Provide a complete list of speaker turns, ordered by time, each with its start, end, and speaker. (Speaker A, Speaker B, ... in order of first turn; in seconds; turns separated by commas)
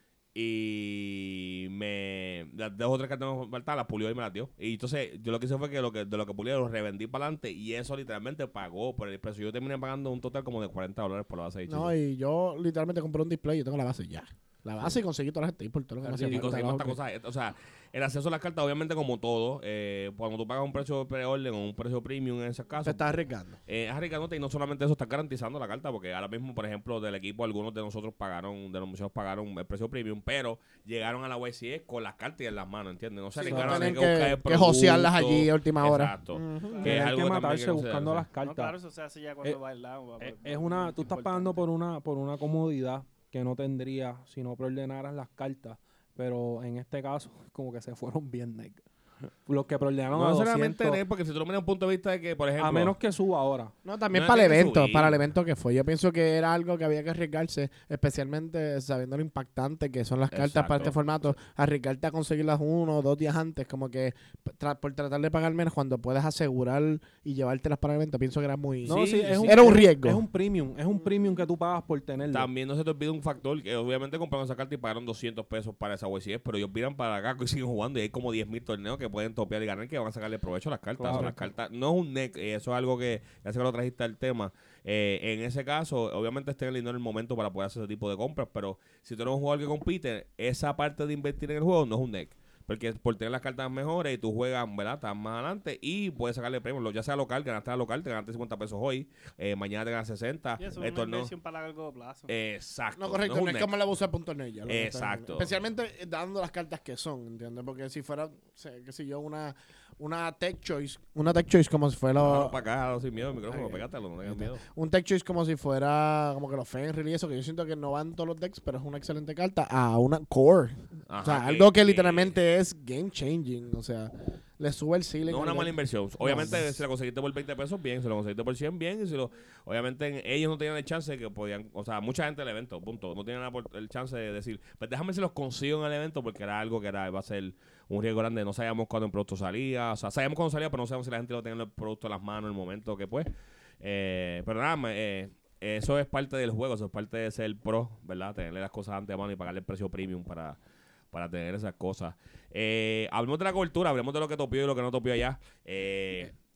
Speaker A: 0.3-11.9, Speaker B: 11.7-16.7, Speaker C: 16.0-17.0, Speaker A: 16.2-23.0, Speaker B: 22.8-23.6, Speaker A: 23.6-38.3, Speaker D: 33.4-33.7, Speaker B: 33.4-36.9, Speaker C: 33.5-34.0, Speaker D: 36.6-37.0, Speaker C: 36.8-38.7, Speaker D: 38.4-41.6, Speaker C: 40.2-48.8, Speaker C: 49.5-51.0, Speaker A: 50.1-52.9, Speaker C: 52.6-53.7, Speaker B: 53.8-70.2, Speaker A: 54.1-55.2, Speaker A: 60.3-61.0, Speaker C: 68.8-72.5, Speaker A: 68.8-69.8, Speaker A: 72.3-101.3, Speaker C: 81.0-81.5, Speaker D: 100.6-102.3, Speaker A: 102.3-103.7, Speaker B: 103.0-112.6, Speaker A: 104.7-105.5, Speaker A: 112.2-114.6, Speaker B: 113.5-126.8, Speaker A: 121.1-122.4, Speaker A: 125.2-143.3, Speaker A: 143.8-150.6, Speaker A: 151.1-156.3